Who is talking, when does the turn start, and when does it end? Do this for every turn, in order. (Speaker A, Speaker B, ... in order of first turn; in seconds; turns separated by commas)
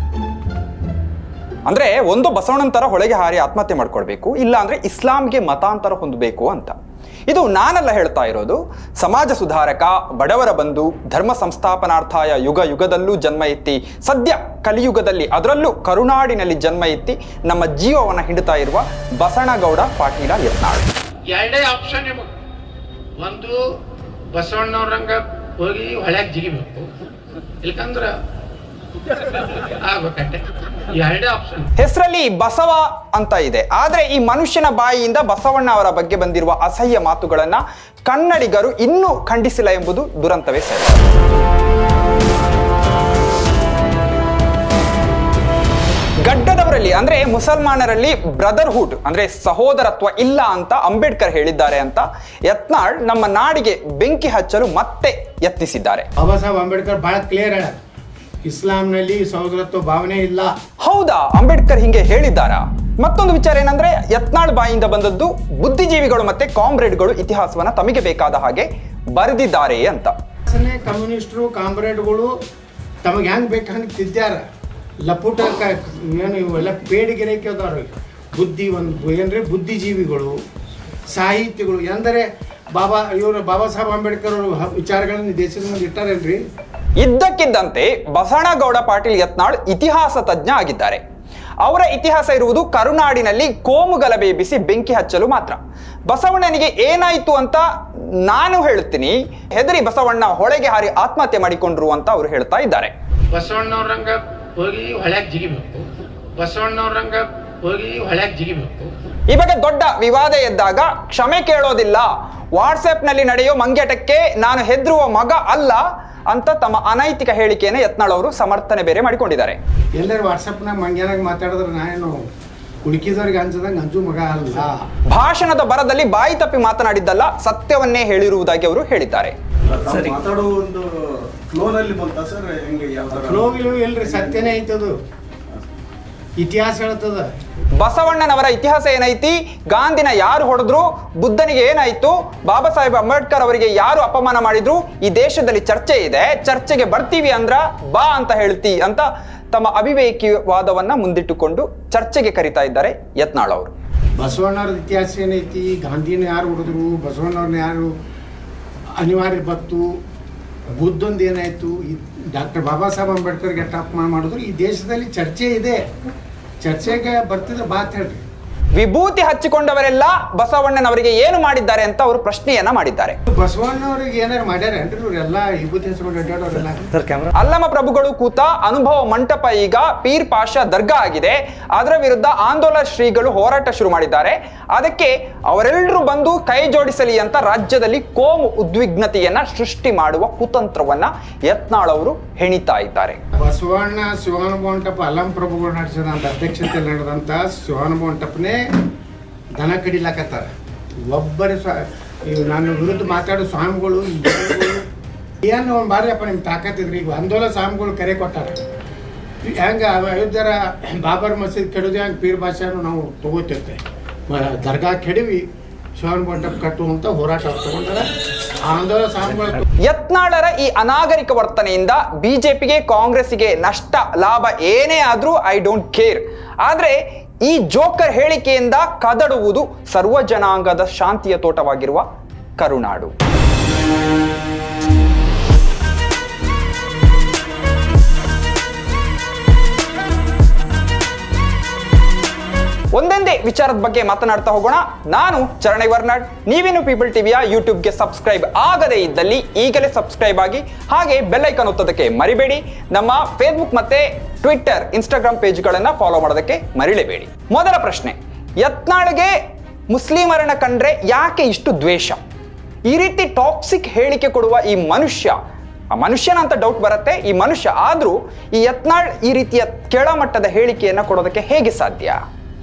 Speaker A: 1.7-6.8, Speaker A: 7.3-20.9, Speaker B: 21.3-22.3, Speaker B: 23.2-23.6, Speaker B: 24.3-26.9, Speaker B: 27.6-28.1, Speaker B: 29.6-31.7, Speaker A: 31.8-41.1, Speaker A: 46.2-56.1, Speaker C: 56.2-57.8, Speaker C: 58.5-60.5, Speaker A: 60.8-70.1, Speaker C: 70.5-72.3, Speaker C: 73.0-74.4, Speaker C: 75.1-80.3, Speaker C: 81.1-86.4, Speaker A: 87.0-91.0, Speaker A: 91.6-102.9, Speaker B: 103.3-108.9, Speaker A: 109.3-119.6, Speaker C: 120.0-122.2, Speaker C: 122.8-124.8, Speaker A: 125.1-129.3, Speaker D: 129.7-134.6, Speaker C: 133.2-134.9, Speaker C: 136.4-137.3, Speaker A: 137.7-153.7, Speaker C: 154.2-157.9, Speaker C: 159.0-159.8, Speaker C: 160.8-165.8, Speaker C: 166.6-168.2, Speaker A: 168.7-173.2, Speaker C: 173.3-176.9, Speaker A: 177.3-193.2, Speaker C: 193.4-198.6, Speaker C: 199.6-200.5, Speaker C: 201.1-204.8, Speaker C: 205.4-208.6, Speaker C: 209.4-215.4, Speaker C: 216.0-218.1, Speaker C: 218.7-219.6, Speaker A: 219.8-232.0, Speaker A: 232.6-233.1, Speaker A: 242.9-259.3, Speaker A: 259.9-262.2, Speaker A: 262.9-265.4, Speaker A: 265.9-272.2